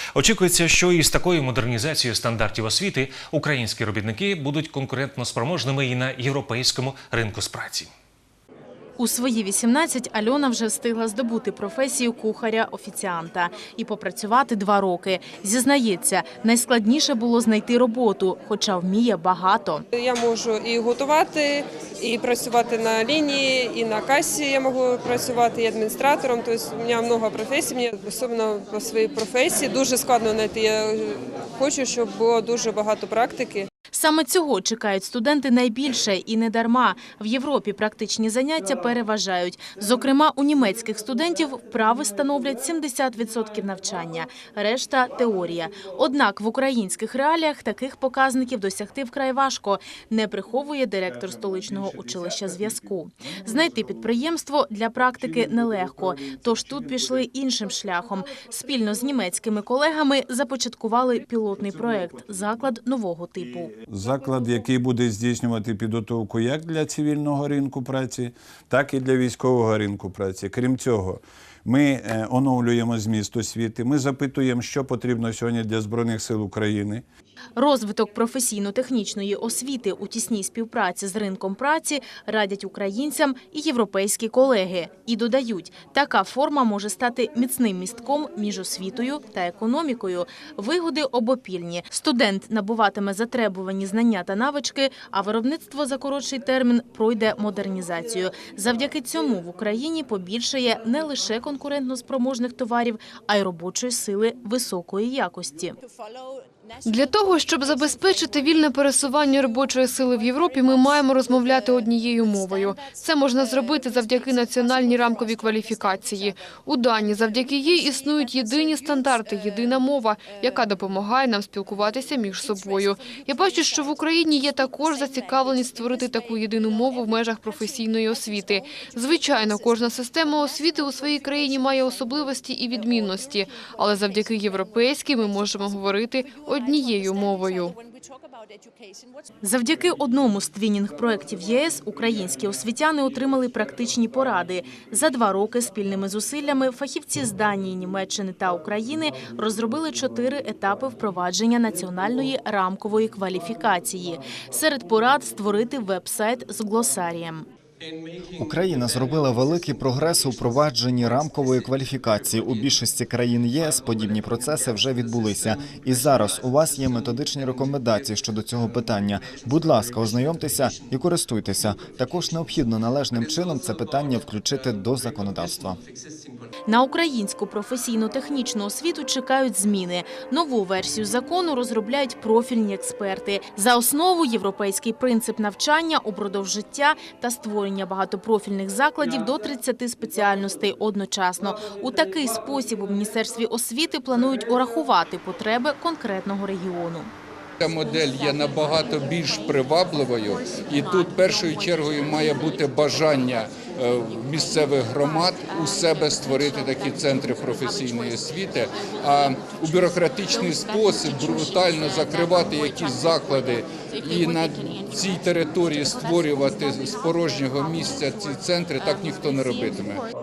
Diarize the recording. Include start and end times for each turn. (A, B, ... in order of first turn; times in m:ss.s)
0:00.1-0:07.9 A
0:09.0-0:19.8 B
0:19.9-0:33.7 C
0:33.9-1:03.7 B
1:03.8-1:17.0 D
1:17.6-1:45.8 B
1:46.8-2:17.8 E
2:19.4-2:37.5 B
2:38.4-2:55.8 F
2:56.7-3:17.1 B
3:17.6-3:40.1 G